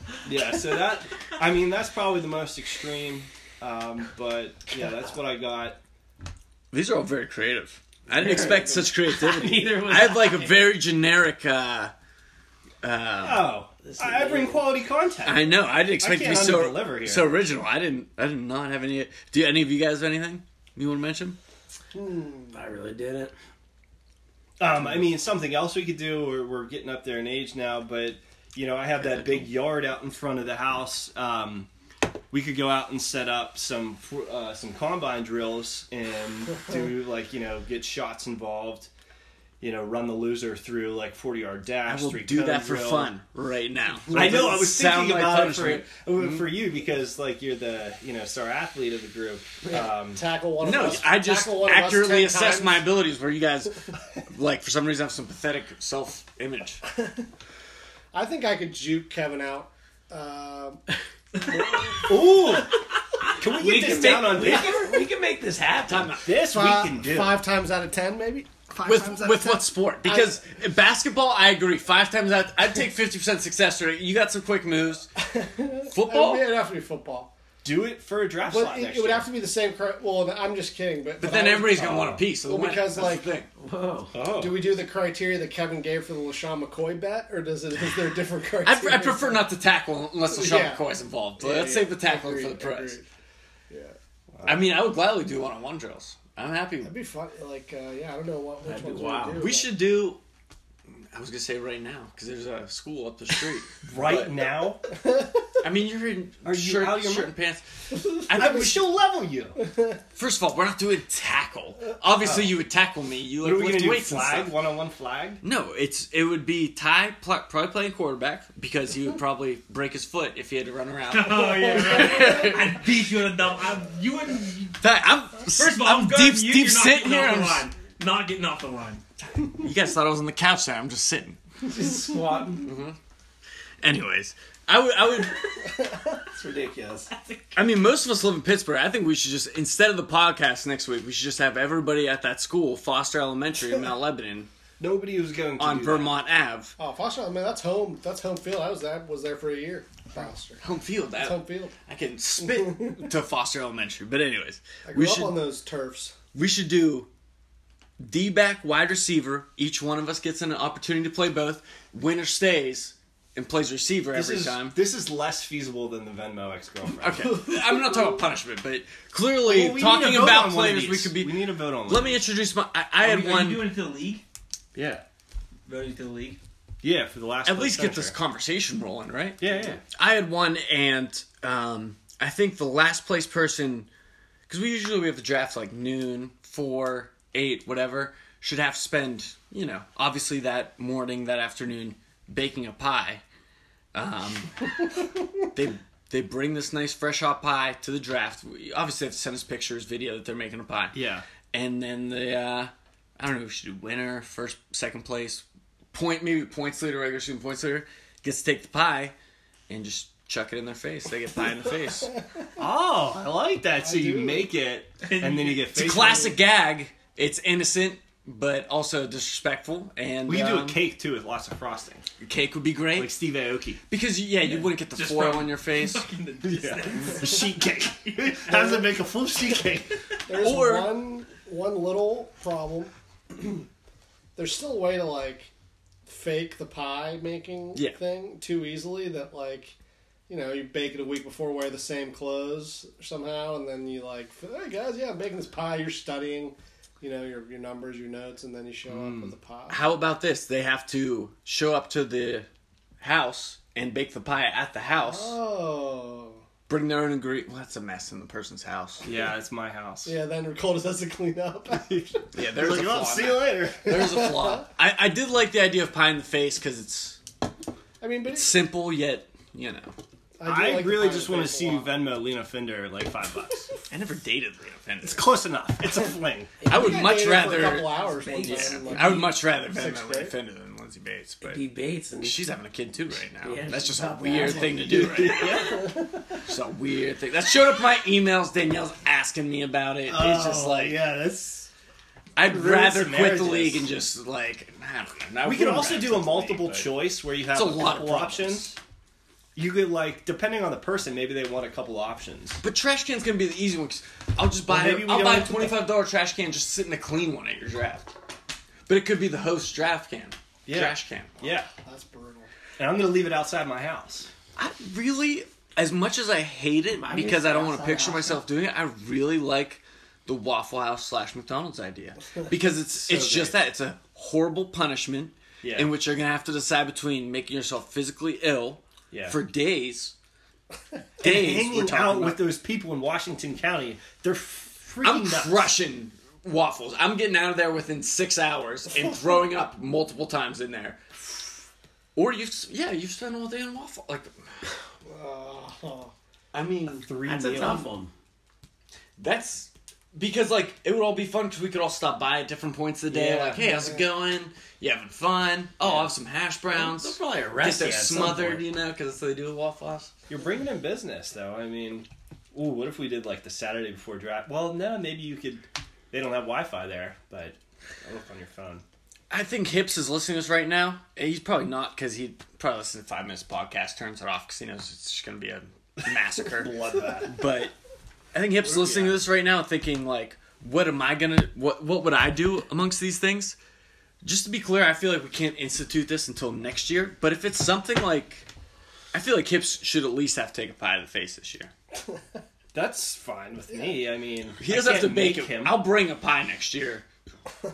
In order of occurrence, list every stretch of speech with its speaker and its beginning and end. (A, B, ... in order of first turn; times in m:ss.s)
0:00.2-0:05.8 A
0:06.7-0:11.9 B
0:08.1-0:10.7 C
0:12.8-0:13.6 B
0:13.2-0:17.4 A
0:13.8-0:14.7 C
0:15.2-0:21.4 B
0:22.0-0:22.5 D
0:22.5-0:23.3 C
0:24.6-0:31.7 A
0:29.0-0:29.5 B
0:32.3-0:38.9 A
0:39.6-0:43.1 A
0:41.9-0:46.5 B
0:44.1-0:51.0 A
0:49.7-0:52.9 D
0:50.6-0:56.8 B
0:58.1-1:00.8 D
1:01.4-1:02.8 A
1:03.3-1:05.0 A
1:03.4-1:06.2 C
1:05.9-1:06.2 B
1:06.1-1:07.4 A
1:06.4-1:10.4 D
1:08.8-1:15.1 B
1:15.3-1:17.3 D
1:15.9-1:16.6 B
1:17.6-1:19.3 A
1:18.5-1:23.3 D
1:21.2-1:23.5 B
1:23.6-1:24.1 C
1:24.1-1:24.7 A
1:24.3-1:29.5 D
1:28.6-1:33.0 B
1:30.3-1:30.8 D
1:31.4-1:33.0 D
1:33.7-1:33.9 D
1:34.3-1:34.6 A
1:34.4-1:36.9 B
1:36.8-1:39.7 D
1:38.6-1:40.2 B
1:38.9-1:39.4 C
1:41.1-1:44.4 B
1:43.8-1:44.8 A
1:45.6-1:47.6 B
1:46.4-1:47.3 A
1:48.2-1:49.6 A
1:48.3-1:48.7 B
1:50.2-1:54.5 B
1:52.2-1:52.5 A
1:53.4-1:55.4 A
1:55.4-2:02.9 B
2:01.1-2:04.8 E
2:04.8-2:07.7 B
2:05.4-2:09.0 E
2:09.6-2:11.4 B
2:11.7-2:12.6 C
2:12.6-2:13.0 B
2:13.8-2:15.5 B
2:16.3-2:17.1 C
2:17.5-2:24.5 B
2:24.8-2:26.1 A
2:25.6-2:26.7 B
2:26.8-2:30.6 D
2:30.2-2:35.4 B
2:31.1-2:31.7 D
2:32.5-2:33.0 D
2:34.8-2:36.1 D
2:36.3-2:37.1 B
2:38.0-2:44.8 B
2:44.1-2:47.4 A
2:47.0-2:53.7 B
2:49.4-2:52.2 A
2:53.0-2:54.2 E
2:54.7-2:55.0 A
2:55.7-2:56.4 E
2:56.8-2:58.1 A
2:57.4-3:03.9 B
2:59.4-2:59.8 A
3:04.5-3:13.2 B
3:13.9-3:14.6 B
3:15.5-3:29.1 B
3:20.9-3:21.3 A
3:29.7-3:32.1 B
3:32.6-3:36.4 A
3:33.8-3:34.5 D
3:35.0-3:35.8 E
3:35.7-3:40.8 B
3:40.2-3:42.0 A
3:42.2-3:43.1 B
3:42.9-3:43.8 A
3:43.9-3:46.1 B
3:44.4-3:48.5 E
3:46.4-3:50.0 A
3:48.5-3:48.8 D
3:50.3-3:53.6 D
3:50.3-3:51.0 B
3:54.4-3:55.5 D
3:56.0-3:59.7 D
4:00.3-4:09.8 D
4:08.9-4:09.3 A
4:09.7-4:12.5 B
4:13.0-4:15.4 B
4:15.0-4:16.4 D
4:16.7-4:19.0 B
4:19.0-4:20.1 A
4:20.0-4:22.3 D
4:21.7-4:24.3 A
4:22.3-4:27.2 B
4:23.9-4:24.6 D
4:28.0-4:28.5 D
4:28.3-4:29.9 B
4:30.4-4:31.9 D
4:30.4-4:33.7 A
4:33.9-4:35.2 B
4:35.0-4:36.6 A
4:36.6-4:39.3 C
4:36.6-4:41.6 B
4:36.7-4:40.3 D
4:41.4-4:42.4 C
4:42.2-4:45.8 B
4:43.4-4:45.4 C
4:44.9-4:46.4 A
4:46.4-4:51.0 B
4:50.0-4:51.7 A
4:52.4-4:56.9 B
4:52.4-4:53.9 A
4:55.4-4:58.8 A
4:57.5-4:58.7 B
4:59.6-5:02.6 A
5:02.6-5:08.1 B
5:04.7-5:05.8 A
5:08.9-5:11.3 B
5:10.6-5:11.7 A
5:11.4-5:12.5 D
5:12.8-5:14.3 A
5:14.6-5:30.1 B
5:16.9-5:18.4 C
5:22.9-5:23.6 A
5:25.6-5:25.9 A
5:29.1-5:29.4 A
5:31.2-5:35.7 A
5:31.2-5:32.4 B
5:35.0-5:44.3 B
5:45.0-5:46.1 D
5:46.5-5:47.1 B
5:46.9-5:47.9 A
5:47.2-5:48.1 C
5:49.2-6:00.1 B
5:53.1-5:54.1 D
5:56.7-5:58.6 C
5:57.7-5:58.6 A
6:00.3-6:08.8 A
6:09.3-6:17.7 B
6:16.5-6:17.4 A
6:18.3-6:23.6 B
6:18.6-6:19.2 A
6:24.2-6:28.5 B
6:29.1-6:31.7 B
6:32.7-6:35.8 A
6:34.6-6:37.0 B